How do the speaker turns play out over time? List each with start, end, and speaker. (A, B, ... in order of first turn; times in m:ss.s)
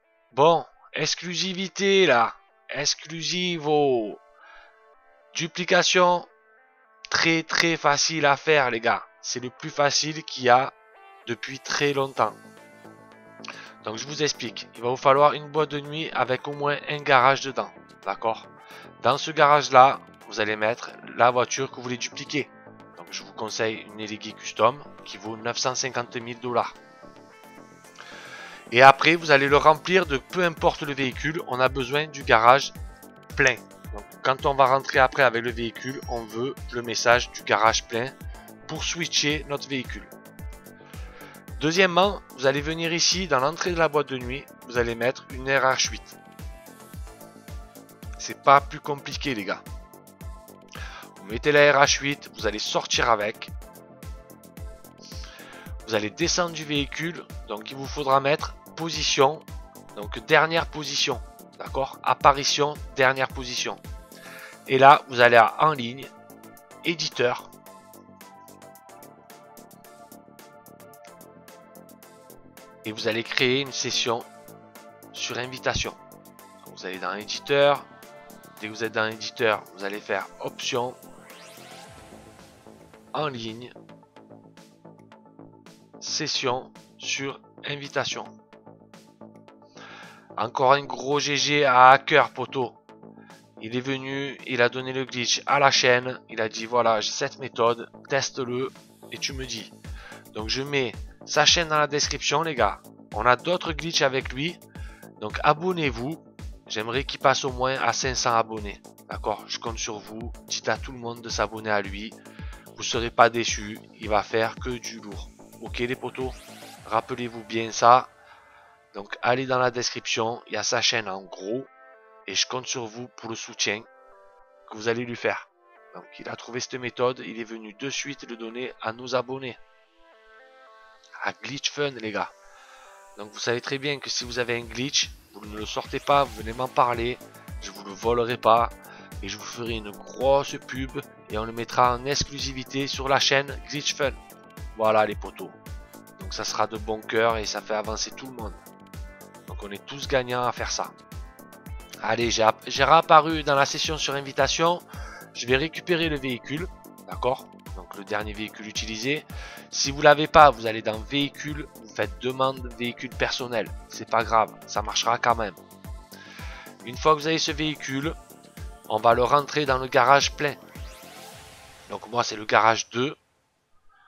0:00.3-0:04.2 A
0:05.3-0:06.3 A
0:07.1-0:10.7 A
0:11.2-0:12.4 A
0:13.8-0:18.5 A
0:19.0-0:26.7 A
0:28.7-0:32.7 A
0:33.3-0:38.2 A
0:38.7-0:40.1 A
0:41.6-0:46.2 A
0:48.2-0:49.6 A
0:51.2-0:53.5 A
0:55.8-1:03.8 A
1:04.6-1:06.1 A
1:06.8-1:07.5 A
1:12.8-1:14.3 A
1:15.1-1:16.0 A
1:16.6-1:17.9 A
1:18.6-1:21.0 A
1:23.1-1:23.7 A
1:26.0-1:28.3 A
1:30.4-1:32.8 A
1:33.6-1:39.7 A
1:40.3-1:44.6 A
1:45.2-1:52.2 A
1:52.7-1:58.1 A
1:58.9-2:01.7 A
2:02.2-2:03.9 A
2:04.7-2:09.6 A
2:11.2-2:12.3 A
2:13.2-2:24.2 A
2:24.7-2:25.6 A
2:26.2-2:28.6 A
2:29.5-2:30.9 A
2:32.0-2:45.6 A
2:46.8-2:48.2 A
2:48.9-2:50.6 A
2:51.9-2:53.2 A